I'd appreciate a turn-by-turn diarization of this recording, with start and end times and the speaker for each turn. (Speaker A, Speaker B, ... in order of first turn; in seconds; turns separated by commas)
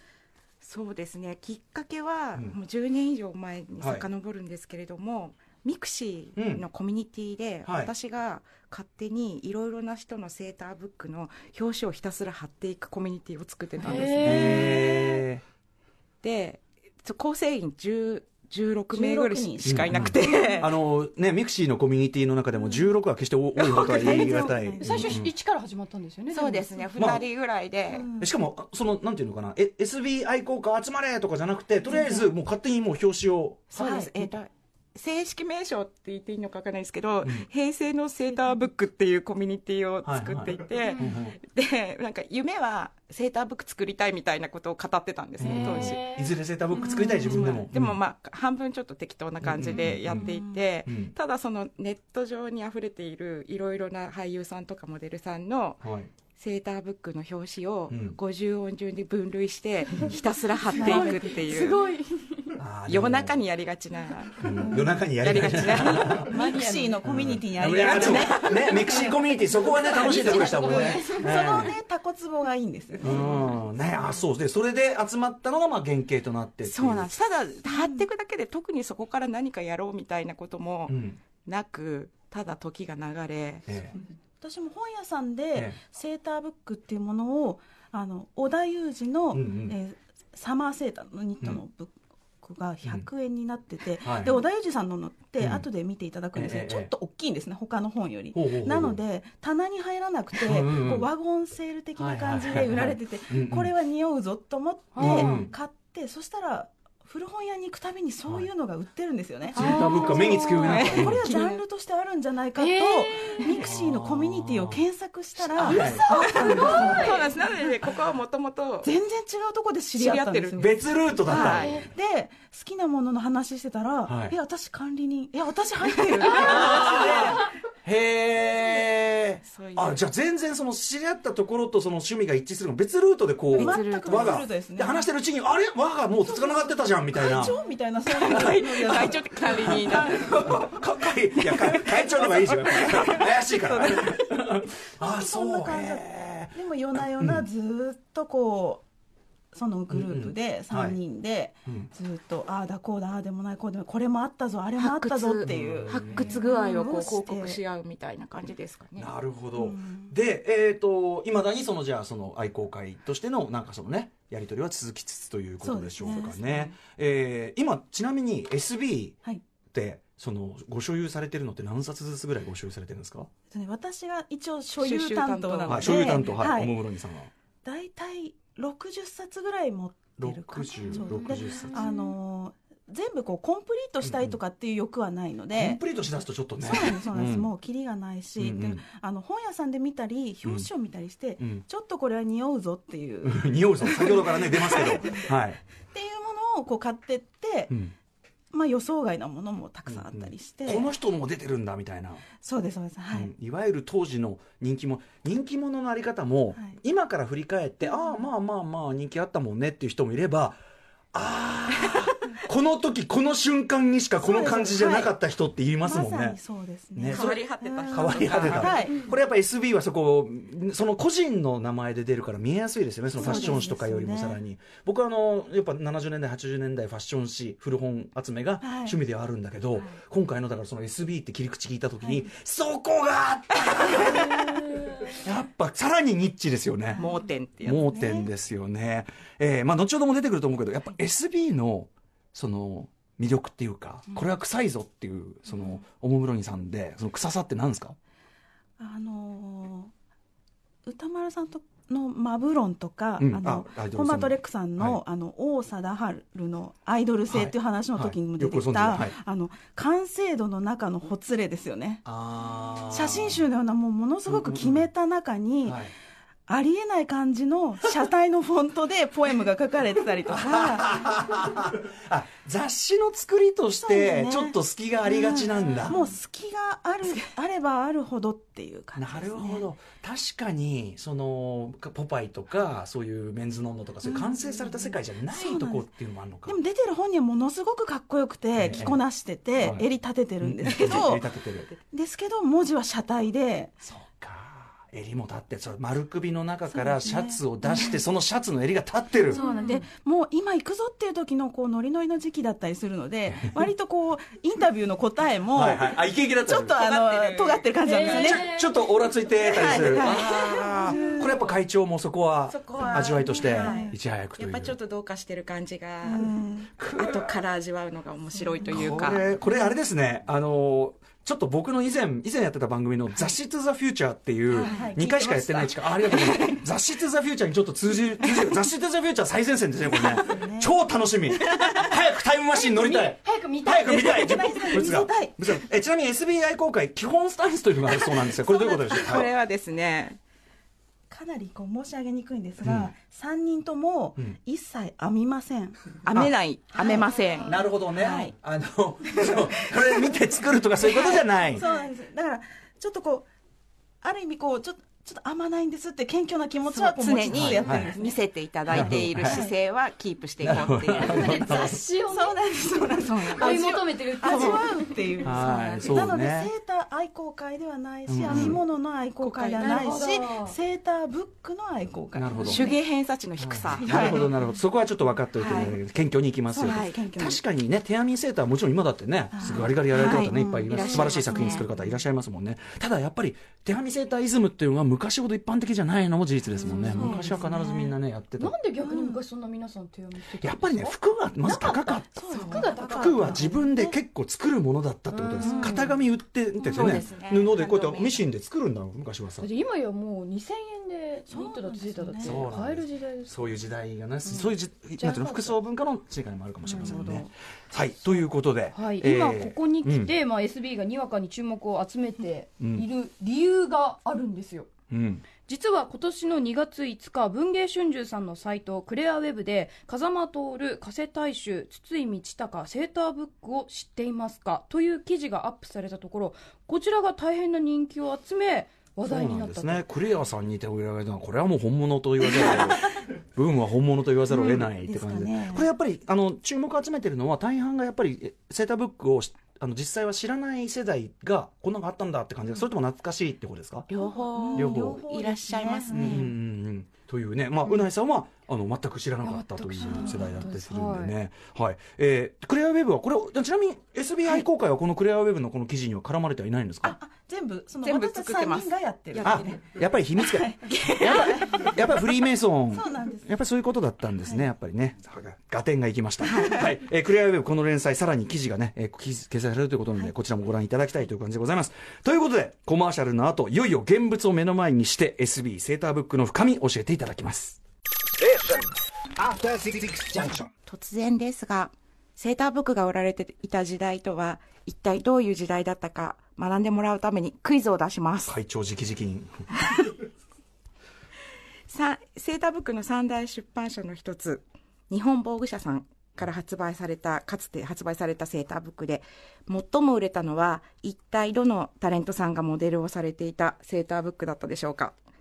Speaker A: 0.6-15.2, Speaker B: 3.8-4.0, Speaker B: 6.3-6.6, Speaker B: 7.7-7.9, Speaker C: 13.8-15.0, Speaker B: 14.2-15.4, Speaker A: 16.2-20.7, Speaker D: 18.9-20.7, Speaker B: 19.6-25.3, Speaker D: 23.6-25.2, Speaker C: 23.9-27.2, Speaker A: 26.3-28.1, Speaker B: 26.9-27.2, Speaker D: 27.9-28.3, Speaker B: 28.2-34.3, Speaker D: 31.9-32.3, Speaker A: 33.7-46.0, Speaker D: 33.7-34.1, Speaker B: 40.0-41.4, Speaker C: 40.8-41.1, Speaker B: 45.4-48.0, Speaker C: 45.4-47.6, Speaker A: 46.9-55.8, Speaker B: 49.4-50.3, Speaker D: 50.1-50.6, Speaker B: 50.9-51.1, Speaker B: 55.8-56.1, Speaker A: 56.3-61.8, Speaker B: 57.9-58.2, Speaker C: 60.7-62.6, Speaker D: 60.7-61.3, Speaker B: 62.6-63.4, Speaker A: 62.9-66.3, Speaker B: 64.4-66.3, Speaker C: 64.6-65.0, Speaker C: 65.8-67.0, Speaker D: 65.9-73.5, Speaker B: 67.0-71.8, Speaker A: 67.7-68.8, Speaker C: 69.8-71.7, Speaker B: 73.0-77.1, Speaker A: 76.6-83.7, Speaker D: 77.6-78.0, Speaker B: 80.9-81.2, Speaker B: 83.7-83.9, Speaker D: 84.4-117.5, Speaker B: 89.3-89.8, Speaker B: 94.0-94.4, Speaker B: 95.4-95.7, Speaker B: 96.3-96.9, Speaker B: 98.3-99.0, Speaker B: 100.4-101.1, Speaker B: 102.0-103.7, Speaker C: 104.9-105.5, Speaker B: 105.0-105.5, Speaker C: 109.5-110.9, Speaker B: 109.5-111.3, Speaker A: 109.6-109.9, Speaker A: 110.5-111.6, Speaker C: 112.6-113.6, Speaker B: 113.5-114.8, Speaker B: 115.4-117.0, Speaker A: 115.6-118.9, Speaker C: 115.7-117.4, Speaker D: 118.8-127.5, Speaker A: 119.9-121.7, Speaker B: 120.6-121.9, Speaker C: 121.3-121.9, Speaker B: 124.0-124.3, Speaker A: 126.3-127.0, Speaker B: 126.3-137.5, Speaker A: 129.4-130.0, Speaker A: 133.5-134.5, Speaker D: 133.5-135.1, Speaker D: 136.2-139.3, Speaker A: 138.1-144.2, Speaker B: 138.3-138.9, Speaker B: 139.5-147.4, Speaker D: 145.0-148.8, Speaker D: 149.5-157.6, Speaker B: 149.9-151.0, Speaker A: 154.8-159.1, Speaker B: 155.4-156.4, Speaker C: 156.2-156.9, Speaker B: 159.0-169.2, Speaker D: 159.6-160.1, Speaker D: 165.6-166.4, Speaker A: 166.3-166.7, Speaker B: 169.7-173.3, Speaker D: 173.5-176.8, Speaker A: 174.8-176.3, Speaker B: 175.7-177.3, Speaker D: 177.6-185.8, Speaker B: 180.2-181.9, Speaker A: 181.4-181.7, Speaker B: 184.0-184.4, Speaker B: 185.5-187.5, Speaker D: 186.6-195.3, Speaker B: 188.4-188.8, Speaker B: 193.2-195.6, Speaker D: 195.9-197.7, Speaker D: 198.5-200.9, Speaker B: 199.9-202.2, Speaker D: 202.4-203.3, Speaker B: 203.1-210.6, Speaker B: 211.1-216.4, Speaker D: 214.2-215.1, Speaker D: 215.8-219.1, Speaker B: 216.9-237.0, Speaker A: 217.1-219.0, Speaker D: 223.1-224.4, Speaker D: 228.6-229.0, Speaker D: 232.0-232.3, Speaker C: 234.4-235.1, Speaker A: 237.0-237.9, Speaker B: 237.6-248.0, Speaker D: 237.8-238.3, Speaker D: 248.8-249.9, Speaker D: 250.8-262.0, Speaker B: 253.2-255.0, Speaker B: 257.3-259.1, Speaker B: 262.1-263.4, Speaker D: 262.9-265.9, Speaker B: 264.3-264.8, Speaker B: 265.6-265.9, Speaker D: 266.5-271.3, Speaker B: 270.3-275.9, Speaker D: 273.8-279.7, Speaker B: 278.9-286.6, Speaker D: 284.0-285.9, Speaker D: 286.4-291.3, Speaker B: 288.5-289.0, Speaker B: 289.6-289.9, Speaker B: 290.4-291.7, Speaker D: 291.8-293.7, Speaker B: 293.8-299.4, Speaker D: 296.7-298.0, Speaker C: 299.3-299.9, Speaker D: 299.3-308.5, Speaker B: 305.5-306.8, Speaker A: 306.7-308.5, Speaker C: 307.8-311.5, Speaker B: 308.1-314.8, Speaker D: 309.4-311.4, Speaker A: 309.5-311.1, Speaker A: 312.5-316.3, Speaker D: 312.8-313.9, Speaker D: 316.0-316.7, Speaker B: 316.8-317.3, Speaker A: 316.9-319.2, Speaker D: 318.4-319.8, Speaker B: 318.7-339.3, Speaker A: 324.5-324.9, Speaker D: 324.6-326.6, Speaker D: 330.0-330.7, Speaker C: 332.5-334.9, Speaker D: 333.8-335.4, Speaker A: 338.0-340.2, Speaker D: 338.8-339.0, Speaker D: 341.1-345.8, Speaker B: 342.6-342.9, Speaker A: 346.1-347.6, Speaker D: 346.7-347.4, Speaker B: 347.4-351.6, Speaker D: 347.9-348.3, Speaker D: 350.8-353.3, Speaker D: 354.0-358.2, Speaker A: 356.6-361.4, Speaker B: 357.3-357.9, Speaker B: 358.7-359.4, Speaker D: 358.7-359.5, Speaker B: 360.4-361.8, Speaker C: 361.0-362.4, Speaker D: 361.3-372.8, Speaker A: 362.9-364.9, Speaker C: 363.3-364.9, Speaker B: 365.2-366.5, Speaker A: 365.4-366.1, Speaker B: 368.1-368.6, Speaker A: 368.3-368.6, Speaker A: 369.2-370.0, Speaker C: 369.6-370.6, Speaker B: 372.1-372.7, Speaker A: 372.4-374.3, Speaker B: 373.4-388.6, Speaker D: 373.8-374.2, Speaker A: 375.4-375.8, Speaker D: 376.5-377.4, Speaker A: 376.6-377.0, Speaker D: 379.3-381.7, Speaker A: 379.9-381.7, Speaker D: 386.6-387.9, Speaker C: 386.6-387.4, Speaker A: 386.7-387.2, Speaker C: 388.4-393.6, Speaker D: 388.8-389.2, Speaker B: 390.4-392.1, Speaker D: 391.5-394.0, Speaker A: 392.3-392.7, Speaker B: 392.8-399.5, Speaker C: 395.1-395.9, Speaker A: 395.4-395.9, Speaker A: 396.6-398.3, Speaker C: 399.4-403.6, Speaker D: 401.3-402.5, Speaker B: 402.2-410.1, Speaker C: 404.2-405.6, Speaker C: 406.6-407.3, Speaker C: 408.7-414.7, Speaker B: 412.6-412.9, Speaker B: 414.9-415.2, Speaker C: 415.4-429.8, Speaker B: 429.0-443.9, Speaker D: 434.3-435.7, Speaker A: 443.9-446.3, Speaker D: 444.0-446.3, Speaker B: 444.5-445.0, Speaker B: 445.9-456.9, Speaker C: 449.2-451.1, Speaker D: 449.8-450.4, Speaker D: 456.8-459.6, Speaker A: 457.8-461.9, Speaker B: 459.2-477.6, Speaker D: 460.2-462.0, Speaker D: 462.7-463.3, Speaker A: 466.2-466.6, Speaker E: 478.2-480.5, Speaker A: 480.6-488.3, Speaker B: 488.3-489.4, Speaker A: 489.6-489.9, Speaker A: 491.7-504.9